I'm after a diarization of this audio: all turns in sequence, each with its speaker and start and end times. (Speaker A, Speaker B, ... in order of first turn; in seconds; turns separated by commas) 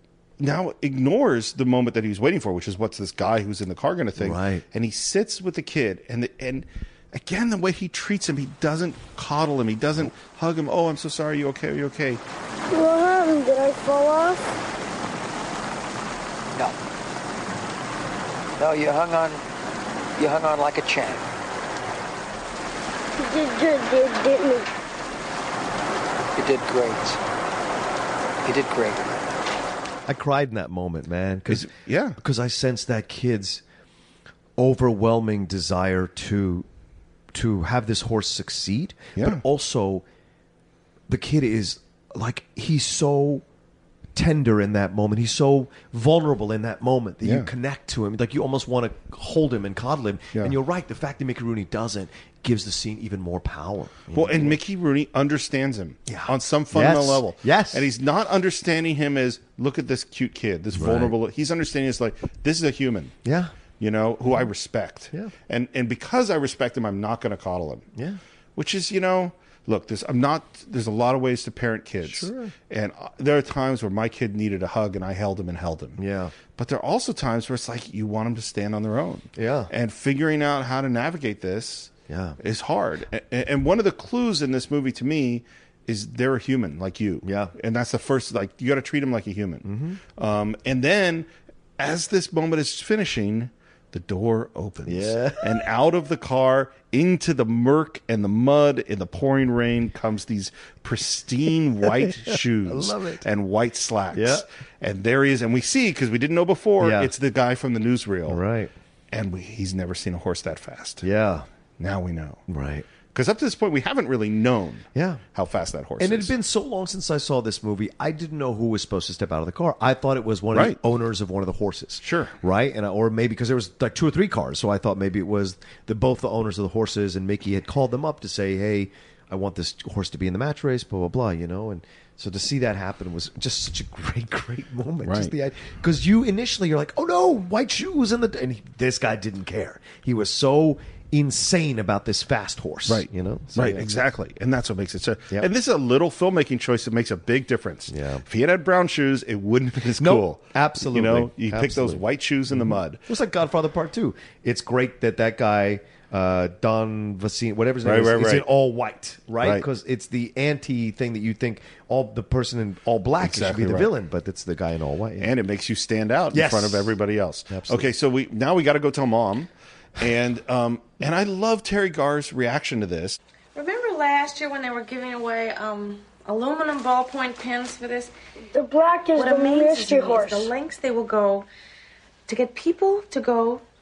Speaker A: 0.4-12.2, Speaker B: 4.2-4.6, Speaker C: 12.7-14.5, Speaker D: 18.6-19.4, Speaker D: 20.2-21.3, Speaker C: 23.2-24.7, Speaker D: 26.4-27.2, Speaker D: 28.4-29.2, Speaker B: 30.1-33.6, Speaker A: 31.5-32.2, Speaker B: 34.6-36.6, Speaker B: 37.3-40.0, Speaker A: 39.2-39.4, Speaker B: 41.1-43.4, Speaker B: 44.1-54.6, Speaker A: 47.2-47.5, Speaker A: 54.1-63.1, Speaker B: 56.1-57.9, Speaker B: 60.7-61.1, Speaker B: 63.2-63.5, Speaker A: 63.8-67.9, Speaker B: 67.9-68.2, Speaker A: 68.5-76.0, Speaker B: 72.0-72.5, Speaker B: 76.0-76.3, Speaker A: 76.5-108.4, Speaker B: 79.3-79.7, Speaker B: 82.1-82.4, Speaker B: 87.2-87.5, Speaker B: 89.6-90.0, Speaker B: 94.9-95.6, Speaker B: 102.0-103.2, Speaker B: 104.1-104.4, Speaker B: 106.8-107.1, Speaker B: 108.3-108.7, Speaker A: 109.1-111.0, Speaker B: 111.0-111.4, Speaker A: 111.8-112.4, Speaker B: 112.5-112.9, Speaker A: 113.1-116.3, Speaker B: 114.9-115.2, Speaker B: 116.0-143.9, Speaker A: 120.5-120.8, Speaker A: 122.0-122.4, Speaker A: 135.0-135.3, Speaker A: 142.8-153.0, Speaker B: 147.9-148.2, Speaker B: 150.0-165.3, Speaker A: 157.8-158.5, Speaker A: 159.4-159.7, Speaker A: 163.2-163.9, Speaker A: 165.2-173.2, Speaker B: 166.3-166.9, Speaker B: 167.5-167.9, Speaker E: 173.5-178.1, Speaker C: 178.5-180.5, Speaker E: 179.1-181.5, Speaker E: 182.3-183.6